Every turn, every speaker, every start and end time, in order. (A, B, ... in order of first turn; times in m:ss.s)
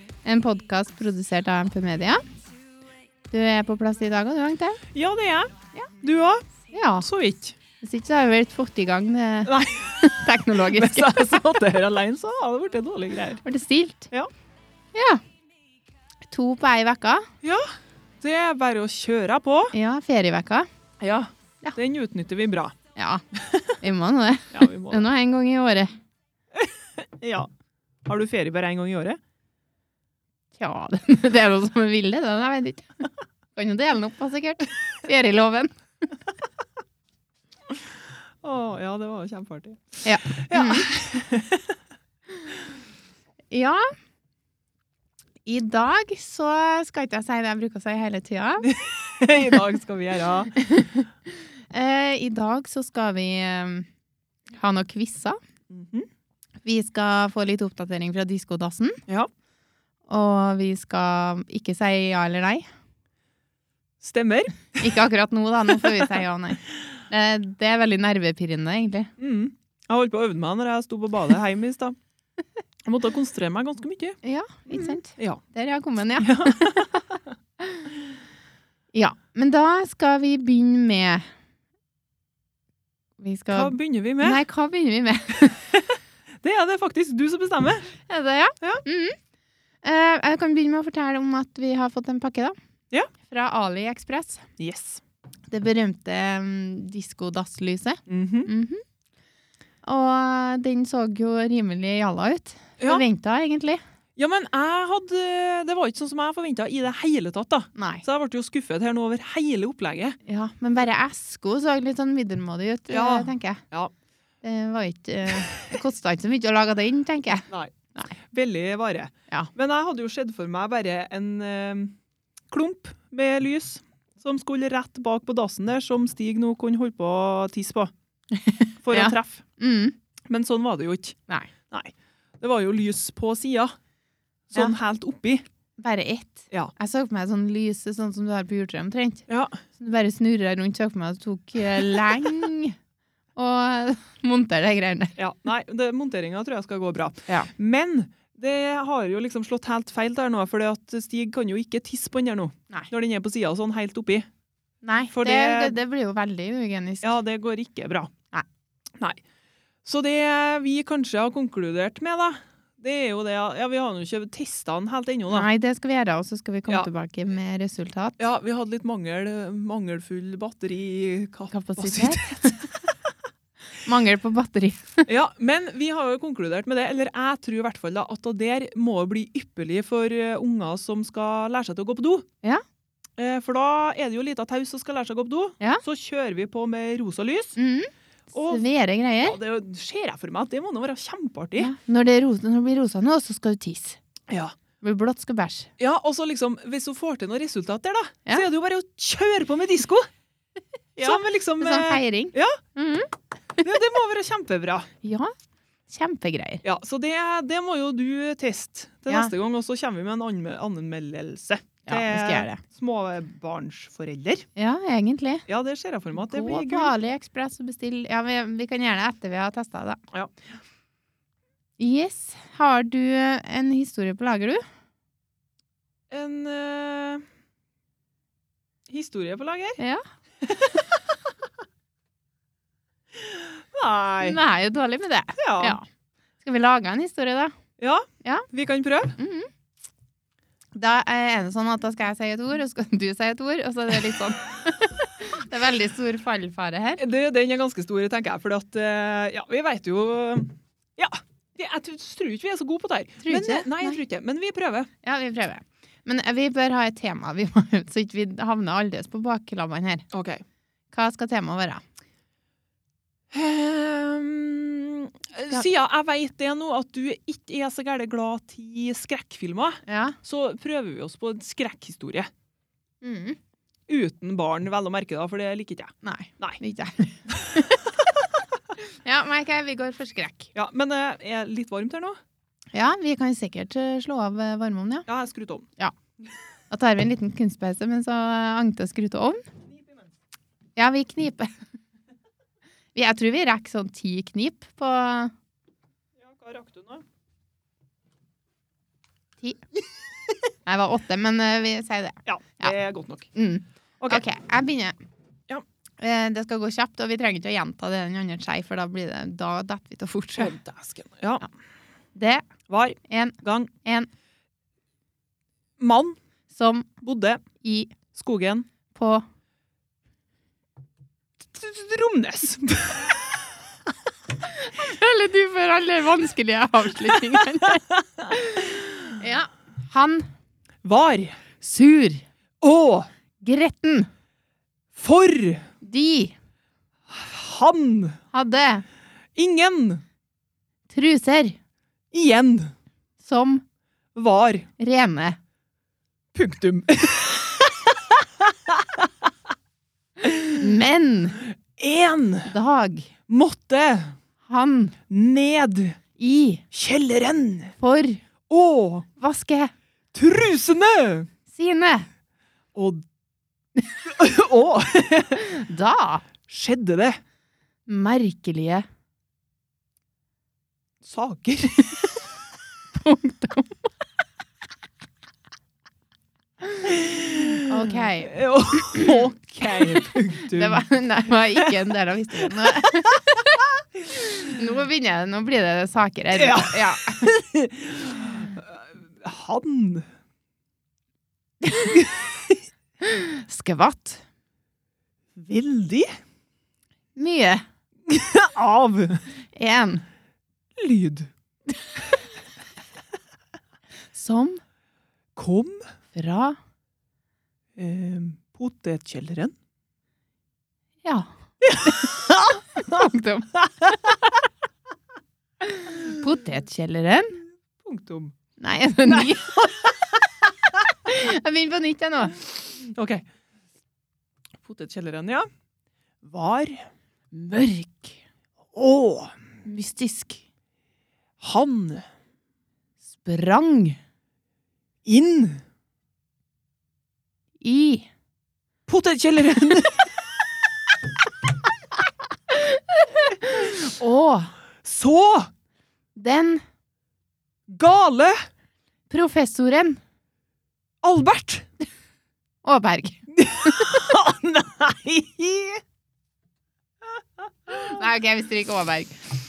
0:00.2-0:02.2 A
0:03.3-0:04.8 A
0:04.9-0:06.4 B
0:06.7-0:07.1 A
0:07.0-0:07.6 B
0:07.8-0:11.4 A
0:09.5-0:13.4 B
0:13.4-0:14.1 A
0:14.9-0:15.2 A
0:16.3-0:17.3 A
0:18.2-0:19.7 B
0:19.7-0:20.7 A
0:21.0-0:22.7 B
0:23.0-0:23.2 A
0:23.8-0:25.9 A
0:24.5-0:25.1 B
0:26.6-0:27.5 B
0:28.0-0:29.2 B
0:30.6-0:33.0 A
0:33.6-0:35.7 A
0:38.4-0:41.7 B
0:40.0-0:40.9 A
0:43.5-0:43.9 A
0:45.4-0:48.6 A
0:48.6-0:50.5 B
0:50.6-0:51.1 A
0:51.7-0:53.9 A
0:54.6-0:55.4 A
0:55.7-0:56.1 B
0:56.6-0:59.0 A
1:00.1-1:02.7 A
1:04.0-1:04.8 B
1:04.8-1:09.1 A
1:09.2-1:12.0 B
1:12.9-1:14.2 B
1:14.2-1:17.0 A
1:14.8-1:15.4 B
1:16.2-1:16.9 B
1:17.6-1:17.9 A
1:18.9-1:21.2 A
1:23.2-1:25.6 A
1:23.5-1:24.4 B
1:26.4-1:27.9 B
1:28.1-1:29.2 A
1:29.8-1:32.6 A
1:33.3-1:34.4 A
1:34.6-1:35.0 B
1:35.5-1:38.8 A
1:38.1-1:38.5 B
1:39.8-1:43.8 A
1:42.8-1:43.0 B
1:44.2-1:50.2 B
1:47.8-1:48.0 A
1:50.3-1:53.6 A
1:52.9-1:53.9 B
1:54.4-1:58.1 A
1:58.3-2:01.9 B
2:02.5-2:07.9 B
2:08.3-2:09.9 A
2:08.8-2:09.4 B
2:10.3-2:11.2 B
2:11.7-2:13.8 B
2:14.5-2:15.4 B
2:15.8-2:22.8 A
2:19.3-2:19.6 B
2:23.4-2:25.2 A
2:25.2-2:34.3 B
2:34.8-2:37.1 A
2:35.1-2:35.8 B
2:37.0-2:38.1 B
2:39.9-2:45.5 B
2:45.3-2:48.2 A
2:48.2-2:52.6 B
2:51.5-2:52.6 A
2:53.8-2:55.1 A
2:55.1-3:02.2 B
3:03.2-3:07.6 B
3:07.6-3:09.4 A
3:08.3-3:08.6 B
3:09.2-3:11.7 B
3:11.6-3:14.0 A
3:14.8-3:15.7 A
3:15.8-3:20.1 B
3:21.0-3:22.6 B
3:21.0-3:23.6 A
3:23.6-3:24.9 B
3:25.0-3:25.3 A
3:25.9-3:26.6 A
3:26.6-3:34.5 B
3:31.9-3:32.6 A
3:34.6-3:35.4 A
3:35.5-3:36.9 B
3:36.2-3:40.0 A
3:41.8-3:44.6 A
3:46.1-3:47.2 B
3:48.9-3:49.8 B
3:50.4-3:50.8 B
3:53.3-3:54.4 B
3:54.2-3:55.8 A
3:55.4-3:55.8 B
3:56.4-3:57.6 A
3:57.8-3:59.2 B
3:59.2-3:59.5 A
4:00.8-4:07.0 A
4:07.0-4:14.9 B
4:13.2-4:14.0 A
4:15.0-4:20.0 A
4:20.1-4:20.4 B
4:20.9-4:21.8 A
4:23.3-4:32.3 B
4:29.9-4:30.2 A
4:33.0-4:33.4 A
4:33.9-4:36.6 B
4:36.0-4:37.8 A
4:39.0-4:40.5 A
4:40.5-4:42.2 B
4:42.7-4:45.1 A
4:45.1-4:45.7 B
4:46.7-4:49.4 A
4:50.8-4:51.5 A
4:52.9-4:55.3 A
4:56.2-4:57.0 B
5:00.6-5:02.7 A
5:02.3-5:03.3 B
5:03.3-5:05.0 A
5:06.0-5:10.5 A
5:10.4-5:11.4 B
5:12.2-5:12.4 A
5:12.7-5:13.7 B
5:13.1-5:14.1 A
5:15.8-5:16.2 B
5:16.5-5:16.9 A
5:17.0-5:17.4 B
5:17.6-5:17.9 A
5:18.1-5:18.6 B
5:18.9-5:19.2 A
5:21.4-5:23.3 B
5:24.5-5:30.3 A
5:30.8-5:31.4 B
5:31.6-5:32.2 A
5:32.6-5:33.1 B
5:33.4-5:34.1 A
5:35.0-5:35.6 B
5:35.8-5:36.3 A
5:37.1-5:38.2 B
5:38.3-5:38.8 A
5:39.4-5:40.0 B
5:40.9-5:41.6 A
5:42.1-5:42.7 B
5:43.2-5:43.6 A
5:44.1-5:44.7 B
5:44.8-5:45.4 A
5:46.3-5:49.1 B
5:50.2-5:50.5 B
5:50.6-5:51.4 A
5:51.8-5:52.5 B
5:52.5-5:53.1 A
5:53.3-5:54.1 B
5:54.5-5:54.9 A
5:55.1-5:56.0 B
5:56.2-5:56.6 A
5:56.7-5:57.7 B
5:57.8-5:58.2 A
5:58.5-5:59.1 B
5:59.2-5:59.7 A
6:00.1-6:01.3 B
6:01.5-6:02.1 A
6:02.8-6:03.0 B
6:04.0-6:05.6 B
6:05.4-6:06.2 A
6:06.5-6:07.2 B
6:07.9-6:08.9 A
6:11.0-6:12.1 B
6:13.0-6:13.8 A
6:16.8-6:20.8 B
6:17.6-6:18.4 A
6:18.9-6:19.2 A
6:20.5-6:27.3 A
6:26.3-6:30.1 B
6:31.6-6:31.9 A
6:33.0-6:34.2 A
6:35.4-6:36.2 B
6:37.2-6:37.6 A
6:38.1-6:39.2 B
6:39.6-6:40.0 A
6:40.8-6:41.3 B
6:44.1-6:44.6 A
6:45.4-6:45.9 B
6:46.1-6:46.6 A
6:47.8-6:49.5 B
6:51.0-6:51.3 A
6:51.6-6:52.6 B
6:52.8-6:53.5 A
6:55.6-6:57.4 A
6:57.8-6:58.3 B
6:58.6-6:59.5 A
6:59.1-6:59.9 B
7:01.1-7:02.4 A
7:02.8-7:03.2 B
7:04.6-7:05.5 B
7:06.2-7:06.9 B
7:07.3-7:08.2 A
7:08.8-7:09.3 B
7:09.6-7:10.4 A
7:11.4-7:12.0 B
7:13.2-7:14.0 A
7:15.1-7:15.6 B
7:17.6-7:18.1 A
7:18.9-7:20.1 B
7:22.5-7:24.5 A
7:24.8-7:25.5 B
7:26.1-7:26.6 A
7:27.7-7:28.4 B
7:29.1-7:30.0 A
7:31.0-7:31.7 B
7:32.6-7:33.9 A
7:33.4-7:35.8 B
7:37.7-7:39.2 A